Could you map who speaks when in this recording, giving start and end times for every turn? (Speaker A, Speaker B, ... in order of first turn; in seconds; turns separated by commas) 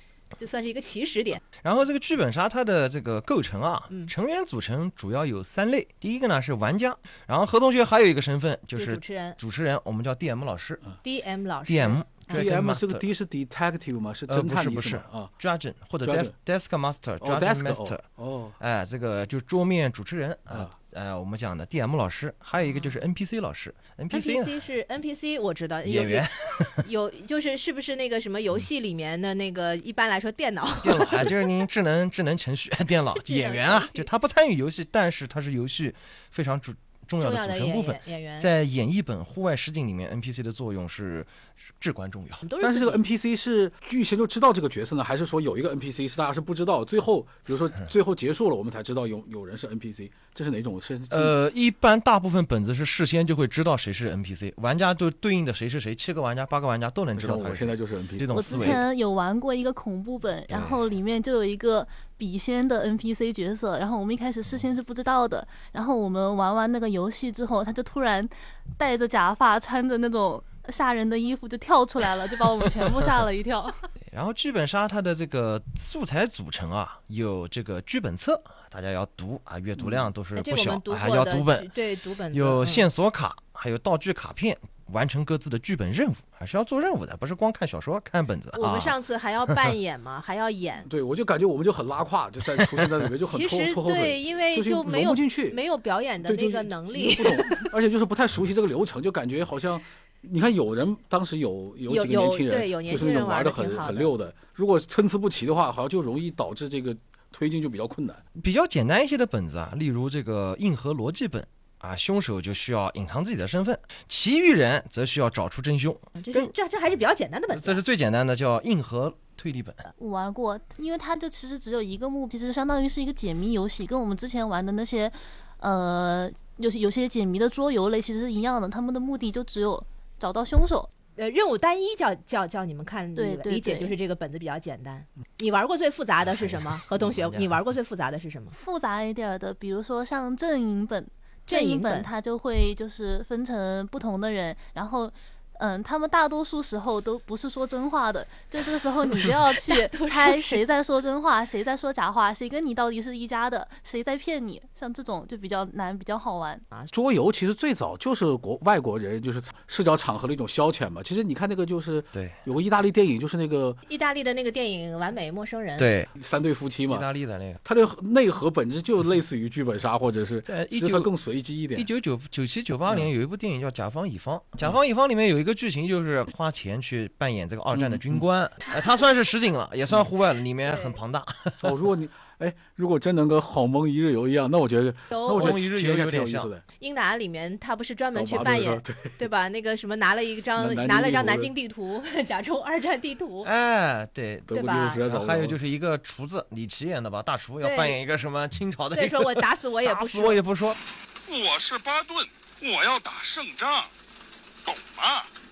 Speaker A: 0.4-1.4, Speaker B: 1.6-10.8, Speaker A: 8.8-9.4, Speaker A: 11.0-12.5, Speaker B: 11.7-13.0, Speaker C: 12.3-15.3, Speaker B: 14.3-18.0, Speaker C: 16.0-16.3, Speaker C: 17.2-18.6, Speaker B: 18.6-24.5, Speaker A: 24.1-31.4, Speaker B: 25.9-26.9, Speaker B: 30.8-42.5, Speaker A: 33.2-34.1, Speaker A: 37.2-38.5, Speaker A: 42.4-43.0, Speaker C: 42.6-51.3, Speaker B: 51.1-58.8, Speaker C: 57.2-58.8, Speaker D: 58.3-73.8, Speaker B: 60.5-60.8, Speaker B: 74.1-81.7, Speaker A: 80.4-82.9, Speaker B: 82.3-89.0, Speaker A: 88.5-90.9, Speaker C: 90.9-95.6, Speaker B: 92.6-92.9, Speaker A: 93.2-97.7, Speaker C: 96.2-108.2, Speaker A: 101.9-104.1, Speaker B: 108.3-116.5, Speaker A: 116.2-117.8, Speaker B: 117.5-119.8, Speaker D: 120.0-130.9, Speaker A: 131.2-138.6, Speaker D: 133.2-134.0, Speaker B: 136.2-137.5, Speaker D: 138.5-156.7, Speaker A: 141.5-142.1, Speaker A: 149.7-150.6, Speaker C: 156.9-163.8, Speaker B: 162.1-162.4, Speaker A: 163.9-165.9, Speaker B: 165.8-166.1, Speaker C: 166.2-167.1, Speaker B: 166.9-167.6, Speaker C: 167.7-171.9, Speaker B: 170.4-171.1, Speaker B: 171.8-181.7, Speaker C: 177.7-178.2, Speaker A: 180.7-181.0, Speaker C: 181.6-186.6, Speaker A: 185.1-185.6, Speaker B: 185.3-186.5, Speaker A: 186.8-193.5, Speaker C: 188.1-189.2, Speaker C: 190.6-191.5, Speaker B: 193.4-200.8, Speaker C: 194.5-195.6, Speaker A: 194.5-195.0, Speaker A: 197.6-198.0, Speaker A: 198.9-200.4, Speaker E: 201.2-203.9, Speaker E: 204.7-205.3